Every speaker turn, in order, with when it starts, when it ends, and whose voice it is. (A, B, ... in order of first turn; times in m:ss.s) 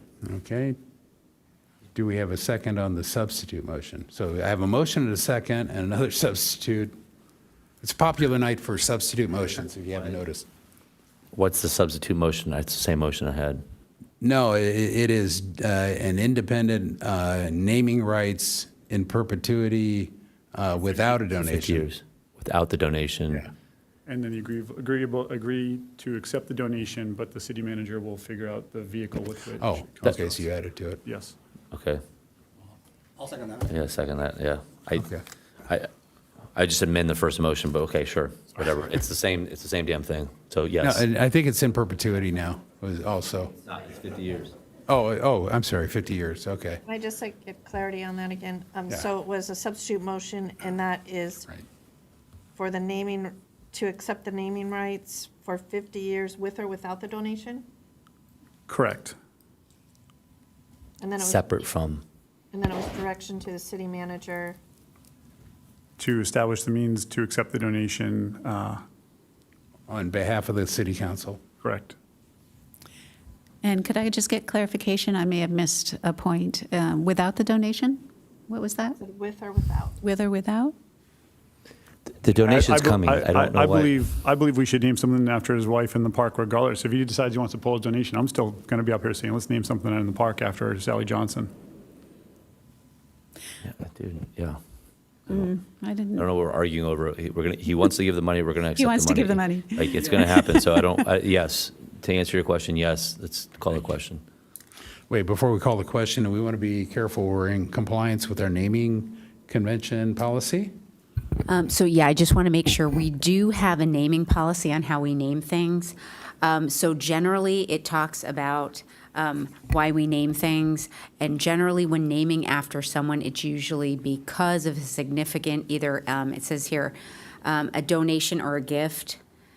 0:00.2-0:00.8 A
0:01.9-0:07.0 A
0:07.8-0:10.4 A
0:11.3-0:13.6 B
0:14.2-0:21.9 A
0:21.4-0:23.5 B
0:24.1-0:30.2 C
0:29.6-0:31.0 A
0:31.0-0:31.4 C
0:31.7-0:32.0 B
0:33.6-0:35.1 B
0:35.0-0:35.2 A
0:36.5-0:41.0 B
0:40.8-0:43.5 A
0:43.7-0:44.5 B
0:44.9-0:46.8 A
0:46.8-0:51.5 D
0:52.6-0:57.6 D
0:58.7-0:59.2 C
1:01.0-1:01.7 D
1:01.2-1:02.0 B
1:02.5-1:04.6 D
1:06.0-1:08.8 C
1:09.9-1:11.4 A
1:11.6-1:12.0 C
1:13.6-1:17.8 E
1:18.5-1:18.9 E
1:19.0-1:20.0 D
1:20.1-1:20.7 E
1:22.2-1:23.9 B
1:22.3-1:31.5 C
1:33.6-1:34.6 B
1:35.4-1:36.2 E
1:36.1-1:44.2 B
1:38.8-1:39.6 E
1:45.1-1:50.7 A
1:51.4-2:09.2 F